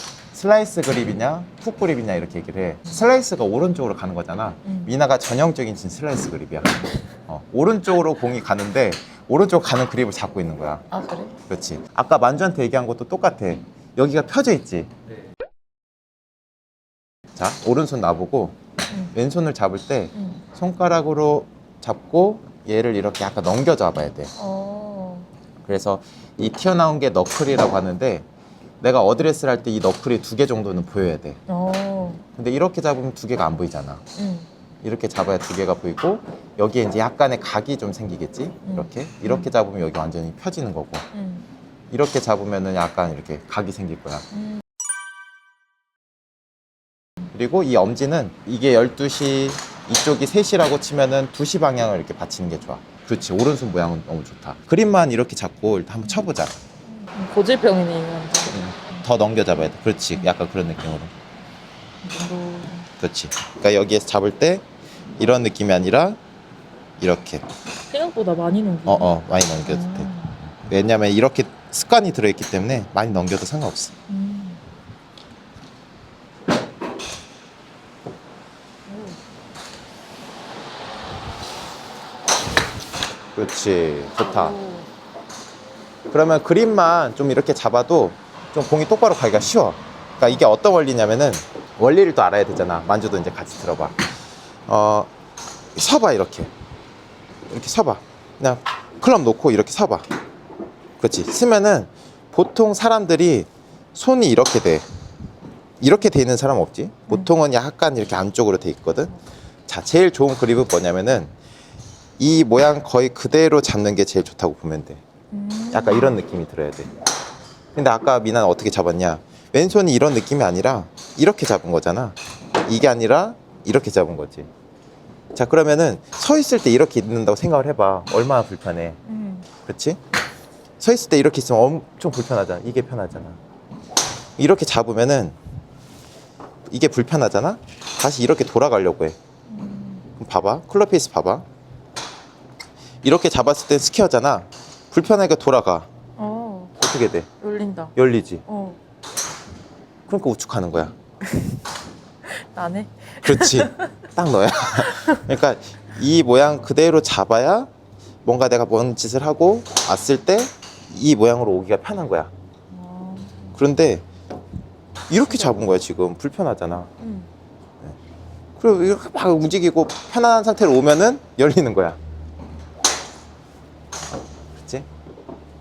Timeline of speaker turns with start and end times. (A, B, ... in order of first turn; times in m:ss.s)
0:00.3-0:10.9 A
0:04.6-0:04.9 B
0:10.9-0:11.4 B
0:11.5-0:14.9 A
0:17.4-0:18.6 A
0:19.1-0:24.3 A
0:20.2-0:20.4 B
0:24.4-0:25.3 B
0:25.7-0:28.3 A
0:28.8-0:31.4 A
0:31.5-0:32.2 B
0:32.4-0:34.0 A
0:34.2-0:34.5 B
0:34.8-0:41.1 A
0:38.7-0:39.5 B
0:41.1-0:41.5 B
0:41.9-0:44.3 A
0:44.3-0:44.6 B
0:47.3-0:56.5 A
0:56.9-0:59.0 B
0:58.5-1:01.1 A
1:02.0-1:02.9 B
1:03.0-1:04.6 A
1:05.2-1:06.2 A
1:07.0-1:07.4 A
1:07.9-1:09.1 B
1:08.9-1:13.9 A
1:09.6-1:10.4 B
1:14.1-1:14.6 B
1:18.9-1:19.2 B
1:23.4-1:24.6 A
1:24.2-1:24.9 B
1:26.1-1:34.0 A
1:34.7-1:35.1 A
1:35.8-1:36.5 A
1:37.5-1:40.1 A
1:41.0-1:44.8 A
1:45.8-1:49.2 A
1:49.7-1:51.3 A
1:52.2-1:55.0 A
1:55.3-1:56.2 B
1:55.7-1:56.9 A
1:57.7-2:04.5 A
2:05.3-2:09.0 A
2:09.0-2:09.5 B
2:09.6-2:10.0 A
2:10.8-2:13.4 A
2:14.4-2:15.4 A
2:16.7-2:19.2 A
2:19.5-2:20.1 B
2:20.2-2:21.5 A
2:23.0-2:25.9 A
2:26.2-2:26.8 B
2:26.8-2:27.3 A
2:27.4-2:28.0 B
2:28.0-2:28.4 A
2:28.5-2:28.8 B
2:30.1-2:30.9 A
2:32.3-2:33.8 B
2:33.2-2:37.7 A
2:34.8-2:35.2 B
2:38.2-2:42.3 A
2:42.7-2:43.6 B
2:43.6-2:44.0 A
2:45.1-2:46.9 A
2:45.3-2:45.7 B
2:47.0-2:47.3 B
2:48.6-2:52.0 A
2:54.6-2:54.9 A